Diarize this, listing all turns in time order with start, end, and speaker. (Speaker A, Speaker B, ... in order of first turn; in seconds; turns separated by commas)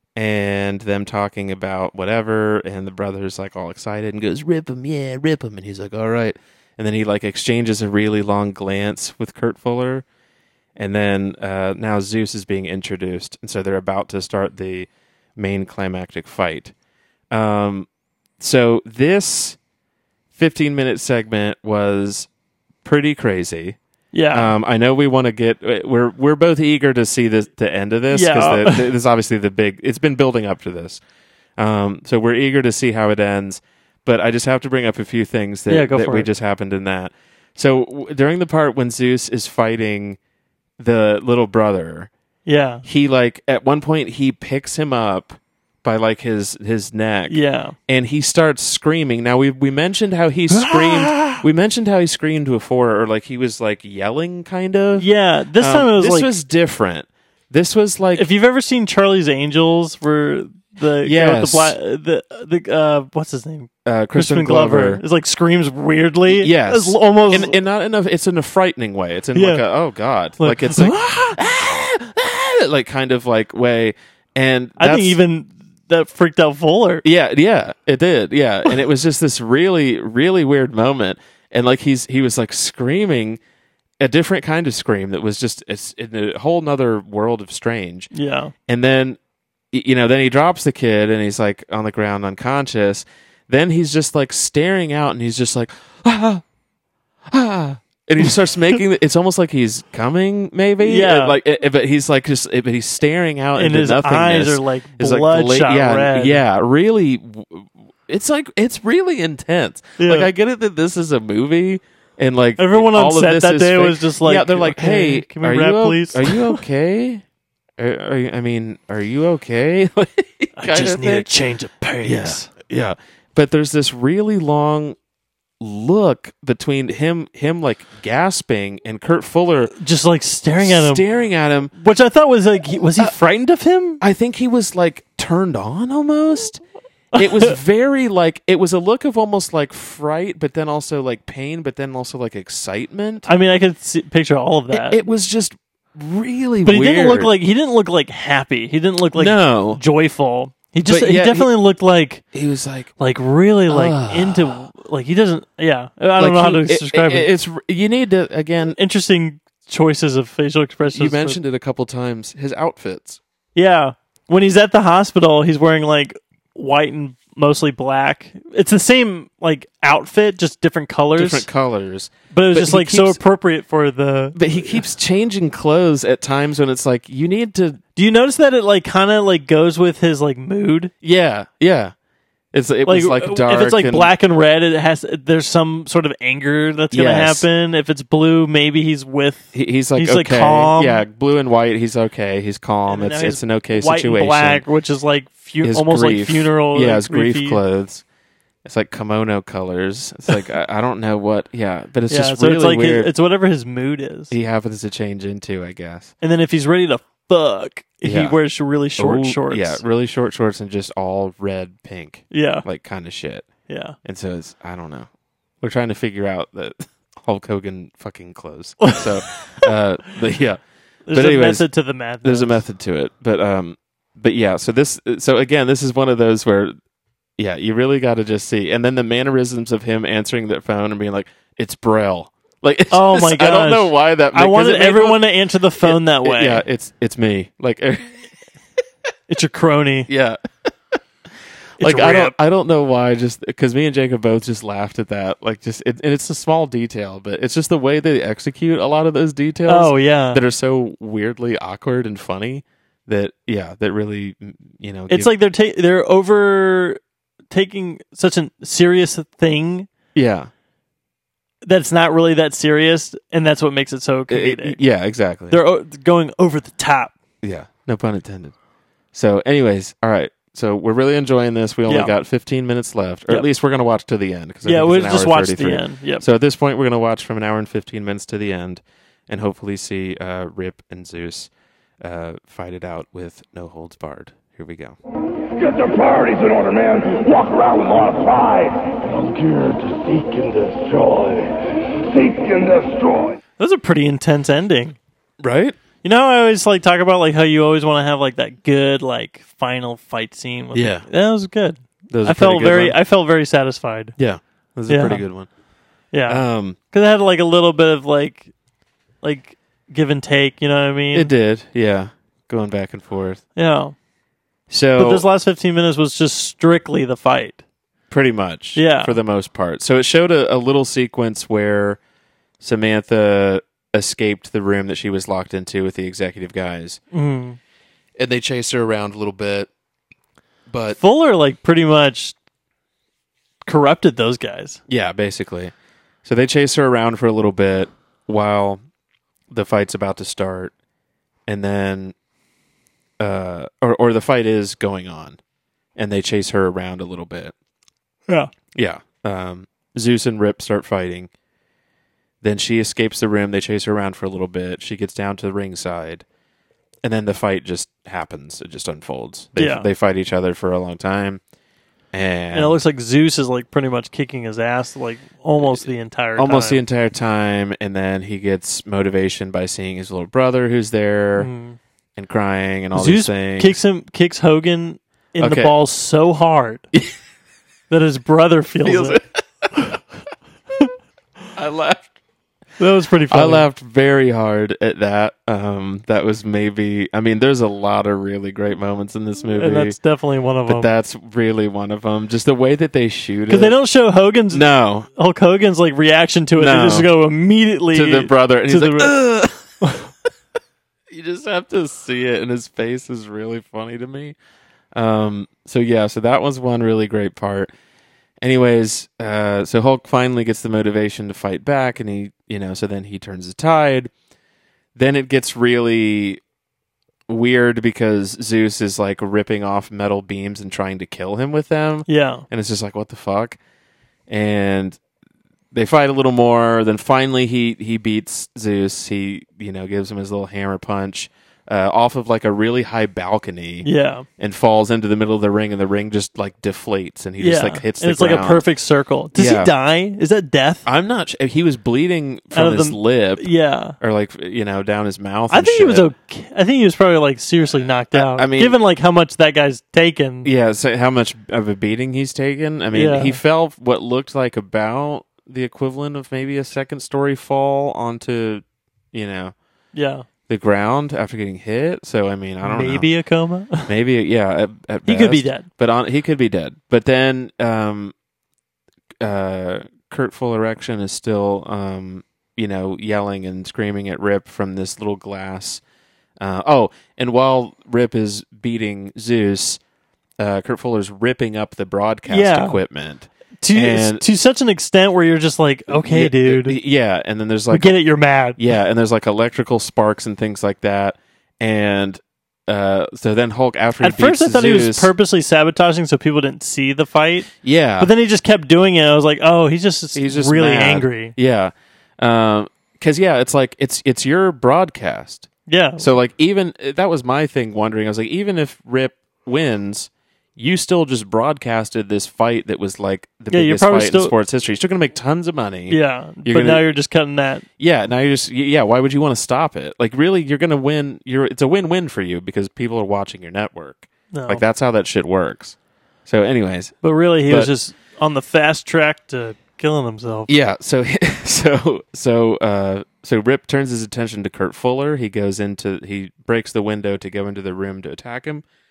Speaker A: 0.1-10.0, Speaker A: 10.8-16.7, Speaker A: 17.3-17.9, Speaker A: 18.4-19.6, Speaker A: 20.3-22.3, Speaker A: 22.8-23.8, Speaker B: 24.1-24.5, Speaker A: 24.3-31.0, Speaker B: 28.1-28.9, Speaker A: 31.6-40.2, Speaker B: 35.7-36.3, Speaker A: 40.8-42.1, Speaker B: 42.5-42.8, Speaker A: 42.8-58.3, Speaker B: 47.3-47.7, Speaker B: 50.5-51.4, Speaker B: 55.0-56.3, Speaker B: 58.1-67.5, Speaker A: 61.0-61.8, Speaker A: 63.8-65.0, Speaker A: 66.3-75.2, Speaker B: 69.3-69.6, Speaker B: 70.4-71.0, Speaker B: 74.8-77.0, Speaker A: 77.0-83.4, Speaker A: 84.0-88.1, Speaker B: 88.1-88.5, Speaker A: 88.7-89.2, Speaker A: 89.7-96.4, Speaker A: 97.3-117.2, Speaker B: 100.8-101.4, Speaker B: 103.5-106.4, Speaker B: 110.0-110.3, Speaker B: 112.6-116.6, Speaker A: 117.8-121.3, Speaker B: 120.6-122.5, Speaker A: 122.0-125.0, Speaker A: 125.6-129.7, Speaker B: 129.8-131.1, Speaker A: 130.6-131.7, Speaker B: 131.7-134.0, Speaker A: 134.0-136.6, Speaker B: 137.1-137.5, Speaker A: 137.1-143.3, Speaker B: 143.2-145.0, Speaker A: 144.7-147.3, Speaker B: 146.6-152.2, Speaker A: 149.1-149.8, Speaker A: 150.8-151.5, Speaker A: 152.3-152.9, Speaker B: 153.0-157.3, Speaker A: 153.7-154.6, Speaker A: 156.2-158.8, Speaker B: 158.7-161.4, Speaker A: 160.9-163.2, Speaker B: 163.5-171.5, Speaker A: 171.2-173.2, Speaker B: 172.3-174.8, Speaker A: 174.3-177.8, Speaker B: 177.9-180.9, Speaker A: 181.0-181.9, Speaker A: 182.5-184.1, Speaker B: 182.8-191.0, Speaker A: 186.9-187.4, Speaker A: 189.5-194.6, Speaker B: 192.9-197.6, Speaker A: 195.6-198.0, Speaker A: 198.6-203.1, Speaker B: 202.1-204.3, Speaker A: 204.3-206.1, Speaker B: 206.2-209.8, Speaker A: 208.0-208.4, Speaker A: 209.0-213.5, Speaker B: 212.3-212.6, Speaker B: 213.7-213.9, Speaker A: 214.0-215.1, Speaker A: 215.6-220.6, Speaker B: 221.1-222.6, Speaker A: 221.1-221.7, Speaker A: 222.2-226.7, Speaker A: 227.4-238.3, Speaker B: 232.9-236.6, Speaker B: 239.3-240.1, Speaker A: 240.1-240.4, Speaker A: 241.8-255.3, Speaker B: 241.8-242.3, Speaker B: 249.7-250.4, Speaker B: 255.1-257.0, Speaker B: 257.5-259.9, Speaker A: 260.1-260.5, Speaker B: 261.6-264.8, Speaker A: 264.3-265.6, Speaker B: 265.5-267.1, Speaker A: 267.4-268.5, Speaker A: 269.1-281.5, Speaker B: 271.9-272.1, Speaker B: 274.6-276.2, Speaker A: 282.0-285.0, Speaker C: 285.5-291.5, Speaker C: 292.1-293.4, Speaker B: 293.6-294.9, Speaker A: 295.4-295.8, Speaker B: 296.0-304.1, Speaker A: 300.7-301.1, Speaker A: 302.1-303.0, Speaker A: 304.2-305.5, Speaker B: 304.9-305.2, Speaker B: 306.1-308.5, Speaker A: 306.3-306.8, Speaker B: 309.2-311.3, Speaker A: 311.1-313.4, Speaker B: 313.6-313.9, Speaker A: 314.7-315.2, Speaker B: 314.9-317.6, Speaker A: 318.1-322.0, Speaker B: 318.8-319.2, Speaker A: 322.6-327.0, Speaker B: 327.1-327.6, Speaker A: 328.2-329.7, Speaker A: 330.7-331.0, Speaker B: 330.9-332.3, Speaker B: 333.6-334.8, Speaker A: 334.9-335.7, Speaker A: 336.2-338.8, Speaker A: 339.5-340.7, Speaker A: 341.5-342.1, Speaker A: 343.2-345.4, Speaker A: 345.9-347.5, Speaker A: 348.7-351.3, Speaker A: 352.4-356.2, Speaker A: 357.0-361.4, Speaker B: 359.6-359.9, Speaker A: 362.1-362.8, Speaker B: 362.5-366.8, Speaker A: 365.6-371.5, Speaker B: 371.4-371.8, Speaker A: 372.1-373.8, Speaker B: 372.9-376.9, Speaker A: 375.4-375.7, Speaker B: 377.9-379.2, Speaker A: 378.8-379.9, Speaker A: 381.5-382.1, Speaker B: 382.8-383.7, Speaker A: 383.3-389.9, Speaker B: 389.5-390.9, Speaker A: 390.6-393.7, Speaker B: 393.5-399.2, Speaker A: 394.5-395.1, Speaker A: 396.5-397.1, Speaker A: 397.9-399.9, Speaker A: 401.1-404.4, Speaker A: 404.9-407.7, Speaker A: 408.4-414.1, Speaker A: 414.9-416.4, Speaker A: 417.3-423.6, Speaker B: 422.1-422.4, Speaker A: 424.3-425.0, Speaker A: 425.7-438.6, Speaker B: 433.8-434.2, Speaker B: 437.4-440.8, Speaker A: 439.3-439.7, Speaker A: 440.8-443.5, Speaker B: 442.5-443.9, Speaker A: 444.0-446.1, Speaker B: 445.5-450.5, Speaker A: 448.1-448.8, Speaker A: 450.4-459.5, Speaker B: 452.9-453.4, Speaker B: 459.9-460.2, Speaker A: 460.5-463.1, Speaker B: 462.6-463.9, Speaker A: 463.8-468.1, Speaker B: 465.1-465.6, Speaker A: 469.2-475.8, Speaker A: 476.4-479.8, Speaker A: 480.4-484.2, Speaker B: 482.3-482.8, Speaker B: 483.6-486.8, Speaker A: 485.9-487.9, Speaker B: 487.7-488.6, Speaker A: 488.6-495.1, Speaker B: 494.0-501.3, Speaker A: 497.6-498.1, Speaker A: 500.1-516.9, Speaker B: 505.7-506.1, Speaker B: 513.5-514.3, Speaker B: 515.9-517.6, Speaker A: 517.8-527.7, Speaker B: 524.3-524.6, Speaker B: 527.0-530.5, Speaker A: 530.5-538.6